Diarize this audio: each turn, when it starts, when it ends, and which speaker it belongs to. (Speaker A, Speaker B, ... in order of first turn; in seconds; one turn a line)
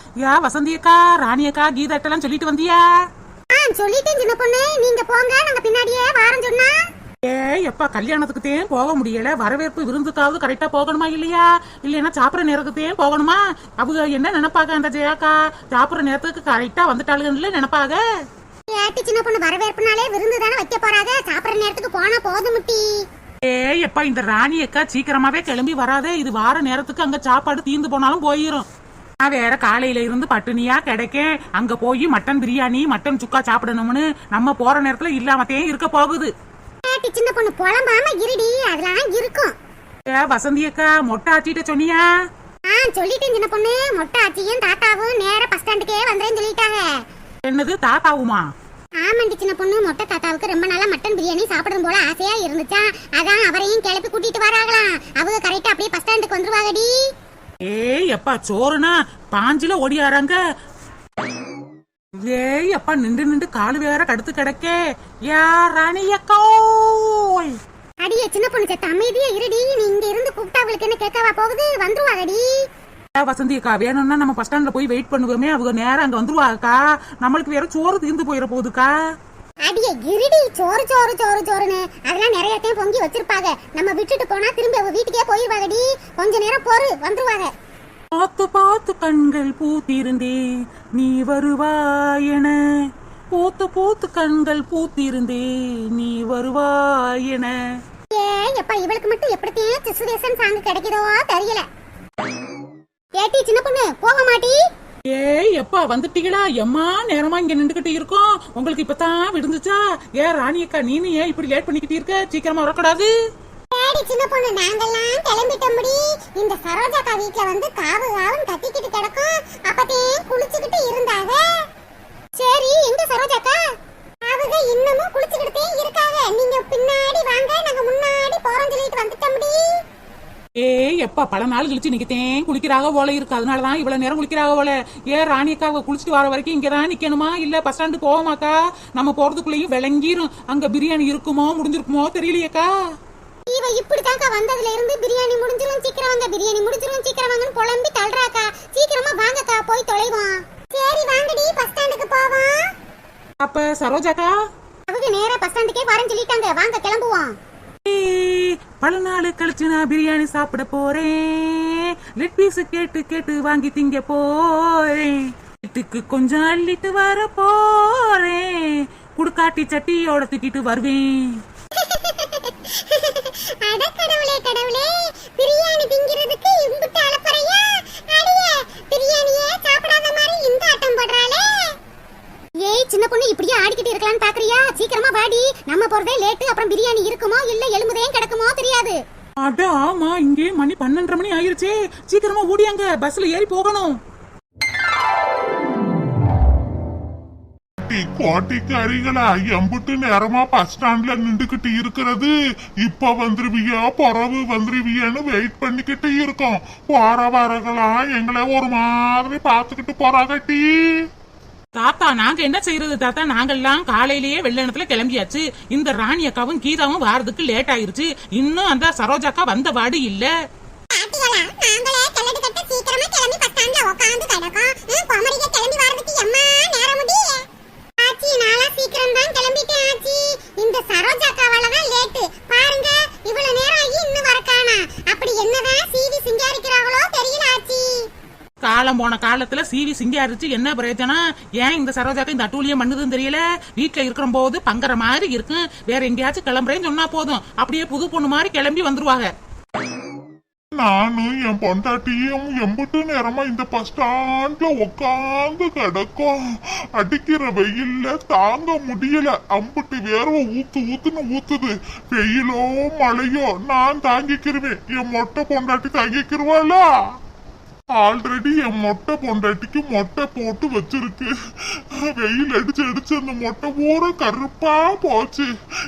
Speaker A: 0.2-2.8
Speaker B: 3.5-6.8
Speaker A: 7.2-18.0
Speaker B: 18.7-23.1
Speaker A: 23.4-28.6
Speaker A: 29.2-36.3
Speaker B: 36.9-39.5
Speaker A: 40.1-42.1
Speaker B: 42.7-47.0
Speaker A: 47.5-48.5
Speaker B: 49.0-56.9
Speaker A: 57.7-60.4
Speaker A: 62.2-67.5
Speaker B: 68.0-72.7
Speaker A: 73.2-78.9
Speaker B: 79.7-87.5
Speaker A: 88.2-90.4
Speaker A: 91.0-97.5
Speaker B: 98.1-101.7
Speaker B: 103.2-104.6
Speaker A: 105.1-113.1
Speaker B: 113.7-121.5
Speaker B: 122.4-123.6
Speaker B: 124.2-129.7
Speaker A: 130.6-142.7
Speaker B: 143.5-152.7
Speaker A: 153.4-154.3
Speaker B: 154.9-157.3
Speaker A: 157.8-171.4
Speaker B: 171.7-181.8
Speaker B: 182.6-189.0
Speaker A: 189.4-193.9
Speaker C: 197.8-211.1
Speaker A: 211.8-220.3
Speaker B: 220.9-227.5
Speaker B: 228.0-238.1
Speaker A: 238.6-249.3
Speaker C: 250.7-266.9
Speaker C: 267.9-275.5